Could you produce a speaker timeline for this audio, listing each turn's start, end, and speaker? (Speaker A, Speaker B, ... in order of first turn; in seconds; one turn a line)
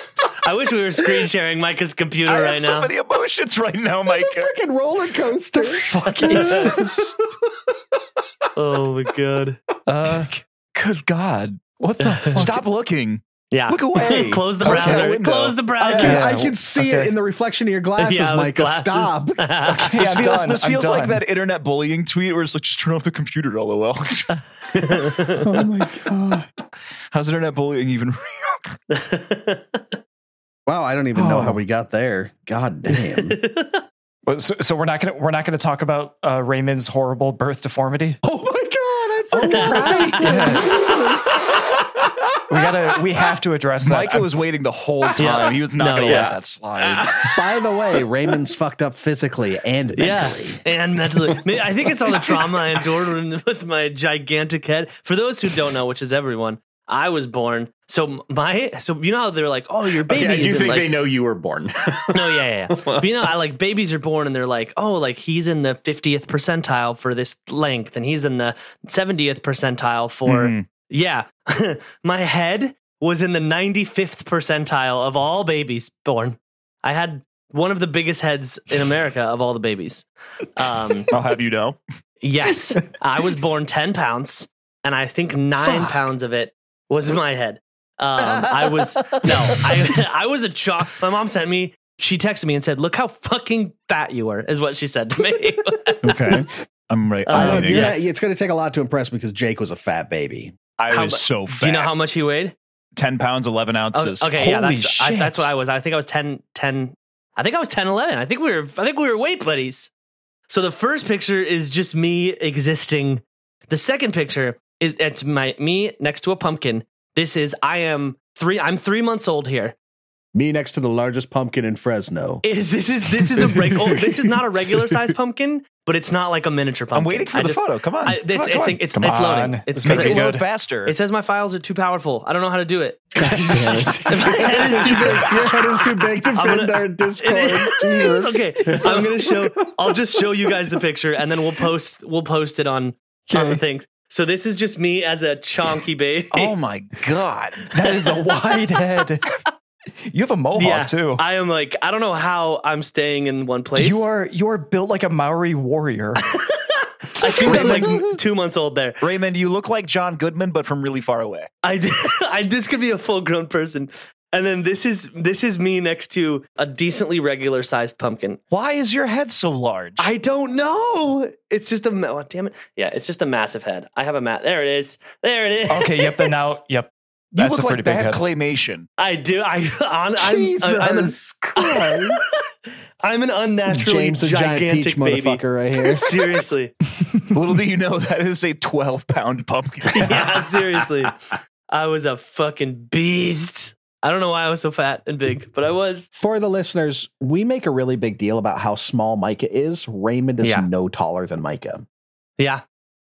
Speaker A: 0.4-2.9
Speaker B: 2.3-4.5
Speaker C: 4.1-6.6
Speaker D: 5.8-7.2
Speaker B: 6.3-6.5
Speaker A: 6.3-6.6
Speaker A: 8.6-9.6
Speaker D: 9.9-10.3
Speaker B: 10.1-11.6
Speaker D: 11.8-12.6
Speaker A: 12.0-12.4
Speaker B: 12.3-16.2
Speaker A: 13.5-16.2
Speaker D: 14.6-15.1
Speaker D: 15.8-17.1
Speaker C: 16.0-19.5
Speaker A: 18.0-20.1
Speaker D: 19.7-21.2
Speaker B: 19.9-25.1
Speaker A: 24.7-25.4
Speaker C: 25.4-26.4
Speaker B: 27.1-28.8
Speaker A: 28.9-30.0
Speaker C: 30.7-33.4
Speaker B: 31.2-31.6
Speaker A: 33.3-33.8
Speaker D: 34.2-38.2
Speaker C: 38.2-41.6
Speaker B: 39.3-40.5
Speaker A: 39.5-39.8
Speaker D: 40.2-40.8
Speaker D: 42.5-44.3
Speaker B: 43.8-47.3
Speaker A: 45.2-46.3
Speaker C: 47.2-50.6
Speaker A: 50.0-60.9
Speaker E: 60.0-63.1
Speaker A: 62.1-81.1
Speaker B: 70.3-70.7
Speaker B: 81.1-81.8
Speaker A: 82.2-96.1
Speaker B: 96.0-97.9
Speaker A: 97.3-98.0
Speaker C: 97.3-100.5
Speaker B: 100.8-101.9
Speaker A: 100.9-102.5
Speaker B: 103.0-104.3
Speaker A: 103.9-109.9
Speaker D: 104.3-105.5
Speaker A: 110.5-119.8
Speaker C: 120.3-122.4
Speaker A: 122.4-130.3
Speaker B: 126.9-128.8
Speaker D: 129.0-130.4
Speaker B: 129.8-130.9
Speaker A: 130.9-135.6
Speaker C: 133.2-139.3
Speaker A: 136.2-146.6
Speaker D: 143.3-143.6
Speaker B: 146.3-147.7
Speaker D: 147.7-149.3
Speaker D: 150.1-151.2
Speaker A: 150.6-154.1
Speaker D: 153.8-156.2
Speaker A: 156.3-159.1
Speaker B: 157.2-157.9
Speaker B: 159.0-161.5
Speaker A: 161.6-168.4
Speaker B: 168.5-170.1
Speaker A: 170.0-176.6
Speaker D: 175.7-178.2
Speaker B: 177.3-178.9
Speaker A: 179.0-182.3
Speaker C: 180.2-182.2
Speaker A: 183.0-186.7
Speaker C: 183.7-186.2
Speaker B: 187.3-190.5
Speaker A: 189.9-196.1
Speaker C: 196.1-201.8
Speaker A: 200.4-200.7
Speaker A: 202.4-202.6